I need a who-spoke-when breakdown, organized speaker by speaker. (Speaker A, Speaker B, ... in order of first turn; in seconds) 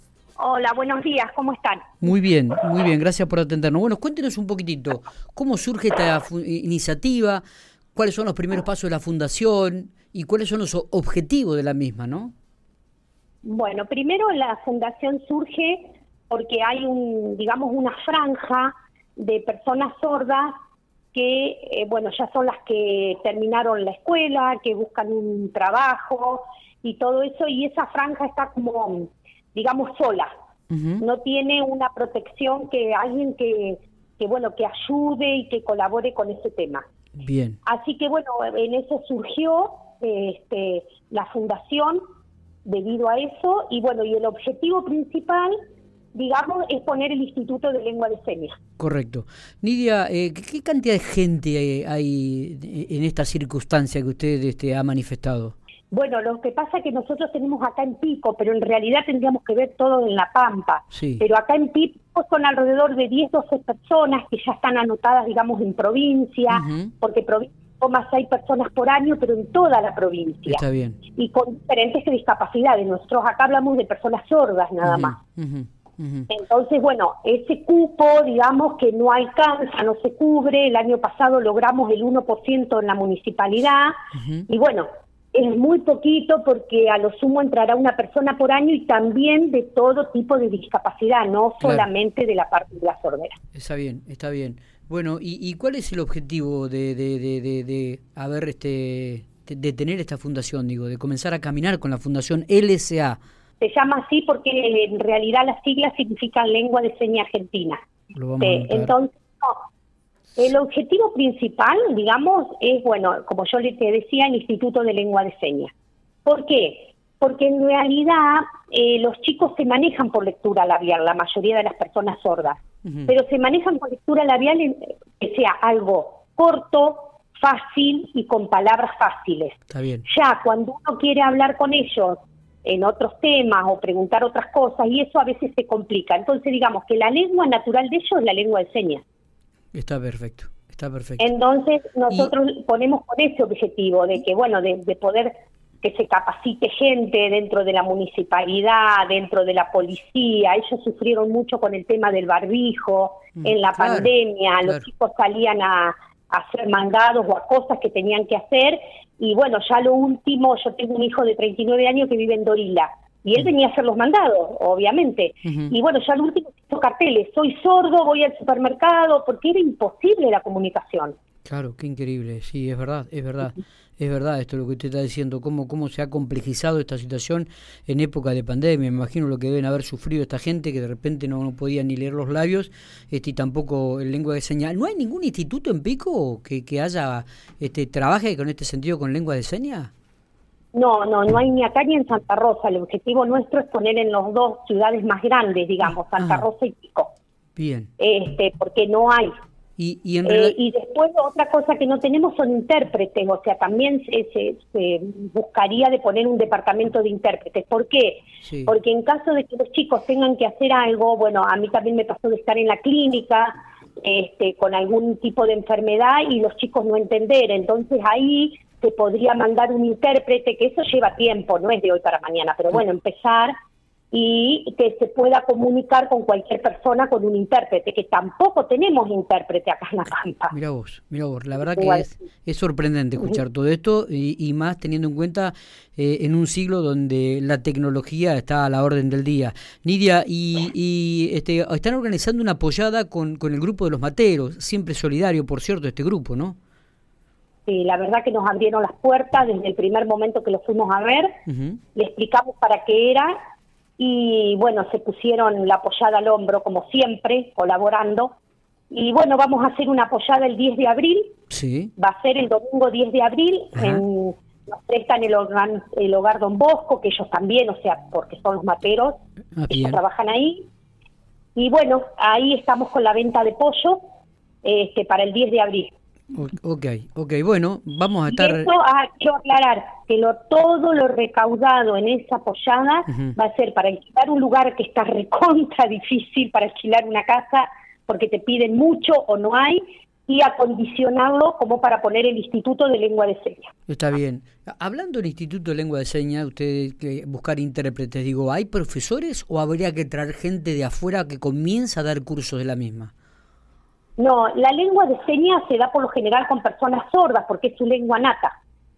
Speaker A: 0.4-1.9, 13.4-20.5, 21.1-30.3, 31.0-36.8, 37.6-42.0, 42.6-45.5, 46.1-48.6, 55.9-70.6, 71.2-75.2, 76.3-93.3, 103.6-107.8, 108.4-109.6, 110.4-115.7, 116.2-139.0, 141.2-171.1, 190.7-197.1, 198.0-199.3, 200.2-223.5, 224.1-230.5, 231.7-232.1, 247.7-251.3, 251.9-253.3, 254.0-258.3, 258.9-261.3, 262.0-269.1, 269.7-270.7, 271.6-274.0, 274.6-275.9, 278.3-293.7, 304.2-308.6
Speaker B: 2.0-7.4, 7.9-12.3, 30.7-31.0, 37.2-37.6, 48.8-55.5, 60.9-61.2, 66.5-66.9, 70.5-71.0, 74.8-76.3, 84.1-84.5, 91.6-91.9, 93.5-103.2, 108.1-108.9, 122.8-123.1, 129.7-130.0, 139.7-141.3, 153.4-154.1, 165.4-165.7, 171.4-189.9, 196.2-196.4, 197.6-197.9, 199.8-200.5, 208.4-208.7, 230.5-246.6, 251.5-251.8, 261.5-261.9, 263.8-264.0, 269.5-270.0, 276.3-278.7, 283.1-283.3, 293.9-303.1